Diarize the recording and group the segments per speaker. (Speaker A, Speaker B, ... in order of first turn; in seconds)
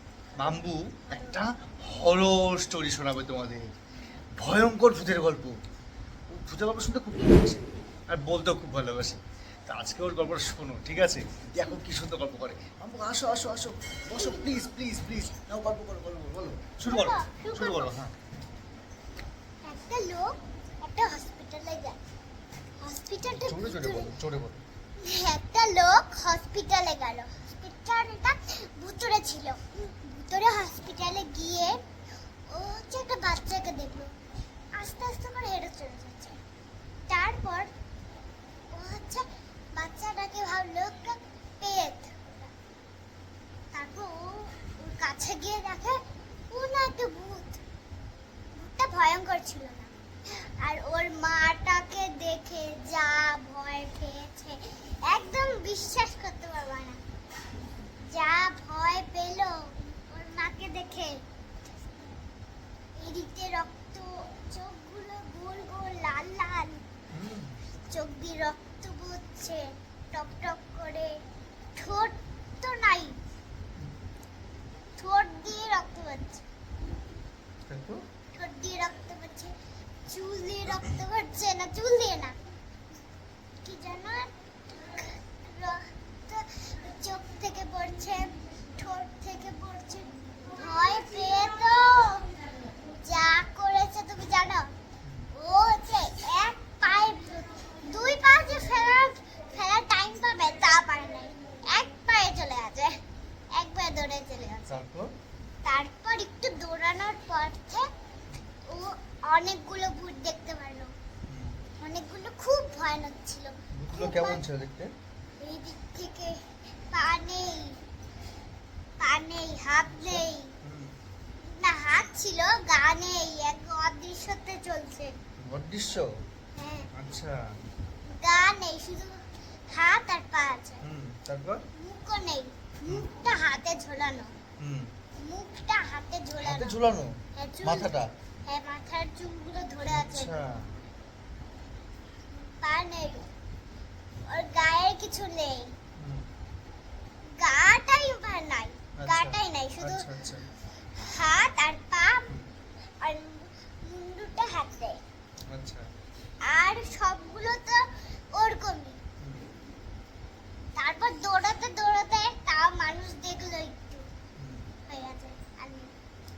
Speaker A: 0.3-3.7, 4.4-5.6, 6.3-18.1, 23.3-24.6, 67.1-67.6, 77.7-78.0, 104.7-105.1, 111.3-111.6, 113.8-114.9, 120.0-120.9, 125.4-126.1, 126.9-127.3, 130.8-131.6, 134.6-134.9, 136.4-138.1, 139.9-140.7, 146.0-146.3, 149.0-150.5, 155.5-155.9, 159.2-159.5, 164.4-164.7
Speaker B: 14.2-14.4, 16.9-17.9, 19.6-20.3, 20.8-22.0, 22.8-24.1, 25.0-31.8, 32.5-34.1, 34.7-36.4, 37.1-37.7, 38.7-42.5, 43.7-46.0, 46.5-47.6, 48.5-49.9, 50.6-57.0, 58.1-61.2, 63.0-66.8, 67.9-71.2, 71.8-73.2, 75.0-76.4, 78.3-79.5, 80.0-82.3, 83.6-92.3, 93.0-94.7, 95.3-103.0, 103.5-104.8, 105.6-107.9, 108.7-110.9, 111.8-114.4, 115.4-117.8, 119.0-120.5, 121.4-125.1, 126.5-126.9, 128.0-130.8, 131.7-134.3, 135.2-136.8, 137.3-137.9, 138.4-140.4, 142.3-143.3, 144.2-145.7, 147.3-150.0, 150.9-152.3, 153.0-155.0, 156.4-159.0, 160.8-164.1, 164.9-165.9